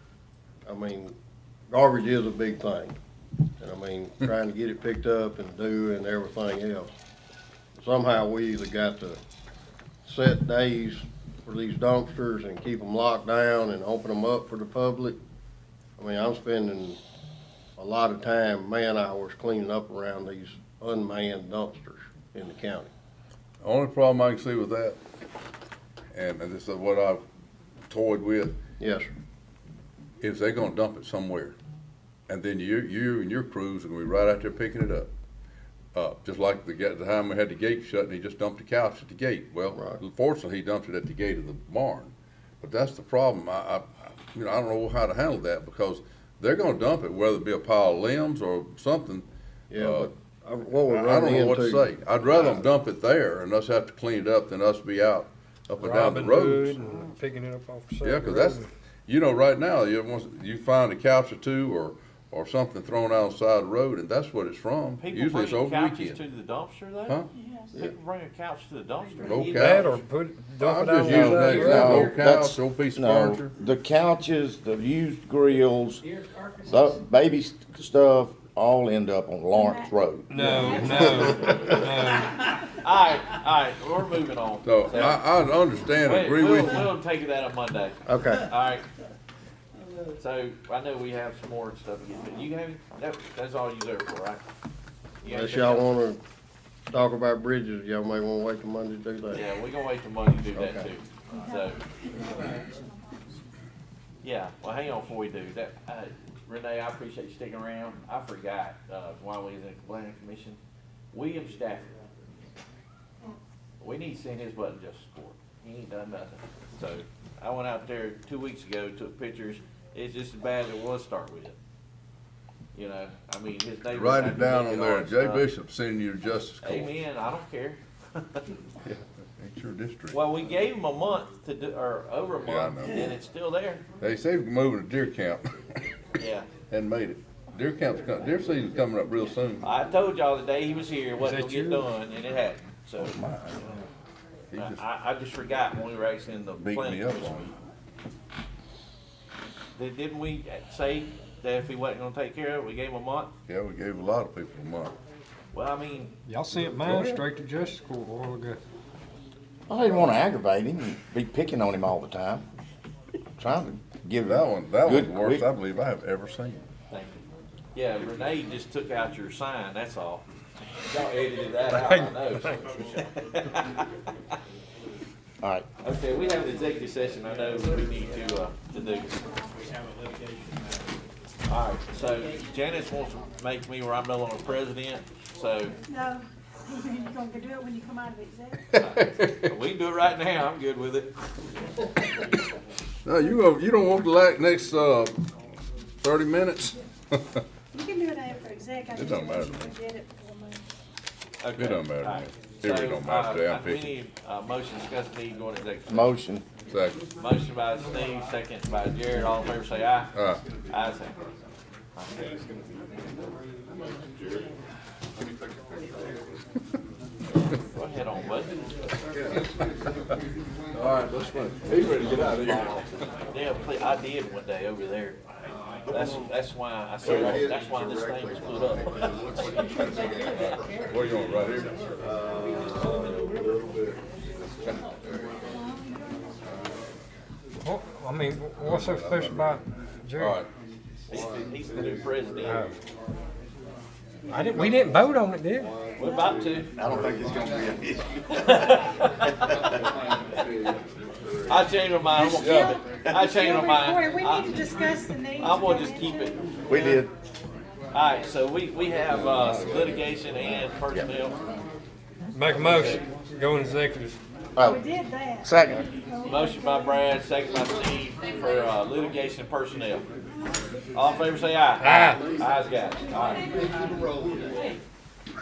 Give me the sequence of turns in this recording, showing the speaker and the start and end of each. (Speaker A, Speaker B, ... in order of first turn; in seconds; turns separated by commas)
Speaker A: 0.7-1.1, Speaker A: 1.7-3.0, Speaker A: 3.6-6.9, Speaker A: 7.8-9.2, Speaker A: 10.0-15.2, Speaker A: 16.0-17.0, Speaker A: 17.8-22.9, Speaker B: 23.6-25.0, Speaker B: 26.1-27.2, Speaker B: 27.9-28.6, Speaker A: 28.8-29.1, Speaker B: 30.2-31.6, Speaker B: 32.3-35.1, Speaker B: 36.0-50.1, Speaker A: 39.7-40.0, Speaker A: 49.7-52.7, Speaker B: 50.9-56.9, Speaker C: 55.8-58.7, Speaker B: 58.0-66.2, Speaker D: 65.0-70.0, Speaker B: 69.2-69.9, Speaker C: 69.5-72.1, Speaker B: 70.5-73.5, Speaker E: 71.0-76.0, Speaker E: 76.6-81.6, Speaker F: 79.5-82.5, Speaker C: 80.3-82.4, Speaker D: 82.7-85.2, Speaker B: 84.6-86.9, Speaker D: 86.0-88.8, Speaker A: 88.0-88.5, Speaker D: 90.2-94.4, Speaker D: 95.2-95.9, Speaker A: 95.2-96.2, Speaker A: 96.9-99.4, Speaker D: 99.3-101.8, Speaker A: 100.5-100.9, Speaker F: 102.3-102.6, Speaker D: 104.2-110.6, Speaker D: 111.1-111.9, Speaker D: 113.8-121.5, Speaker D: 122.7-125.5, Speaker B: 123.9-126.9, Speaker D: 126.6-128.4, Speaker B: 128.8-130.2, Speaker D: 130.1-133.8, Speaker B: 132.4-133.1, Speaker B: 134.0-135.9, Speaker D: 136.2-136.5, Speaker B: 136.7-139.6, Speaker D: 139.6-143.7, Speaker C: 141.2-141.9, Speaker E: 143.1-143.6, Speaker B: 144.5-144.8, Speaker D: 144.6-147.5, Speaker B: 146.6-147.5, Speaker D: 149.8-153.3, Speaker B: 153.5-154.9, Speaker D: 155.5-156.1, Speaker C: 156.3-158.6, Speaker B: 156.8-157.2, Speaker E: 159.7-162.4, Speaker E: 163.4-165.5, Speaker B: 164.2-166.6, Speaker D: 166.9-167.2, Speaker D: 167.7-170.2, Speaker D: 170.8-173.9, Speaker C: 171.7-172.6, Speaker D: 175.8-179.2, Speaker F: 178.7-179.6, Speaker D: 181.5-185.8, Speaker F: 185.9-188.7, Speaker B: 188.7-189.5, Speaker D: 188.8-191.1, Speaker B: 193.1-195.2, Speaker B: 196.0-197.4, Speaker F: 197.7-200.6, Speaker B: 198.9-199.8, Speaker D: 201.4-206.1, Speaker B: 201.6-203.9, Speaker E: 205.9-206.5, Speaker B: 206.7-207.0, Speaker D: 207.2-210.1, Speaker B: 210.2-210.4, Speaker D: 210.7-211.2, Speaker D: 212.0-212.3, Speaker D: 217.6-218.6, Speaker B: 220.7-222.9, Speaker D: 223.3-225.2, Speaker D: 225.9-230.4, Speaker B: 227.0-227.4, Speaker B: 229.7-231.7, Speaker F: 235.5-236.3, Speaker C: 237.6-240.4, Speaker B: 238.6-239.6, Speaker B: 240.2-240.5, Speaker D: 241.1-242.7, Speaker C: 242.5-242.8, Speaker C: 244.3-245.7, Speaker D: 246.0-246.7, Speaker F: 246.0-246.3, Speaker E: 246.8-248.2, Speaker D: 248.3-249.8, Speaker E: 249.4-249.7, Speaker D: 251.5-257.1, Speaker F: 252.1-256.4, Speaker B: 252.4-252.8, Speaker E: 256.7-257.1, Speaker D: 257.9-261.4, Speaker C: 262.3-264.2, Speaker D: 262.5-263.0, Speaker E: 264.6-264.8, Speaker F: 264.6-267.1, Speaker E: 265.4-265.8, Speaker D: 266.2-270.1, Speaker D: 270.9-274.8, Speaker C: 271.8-272.2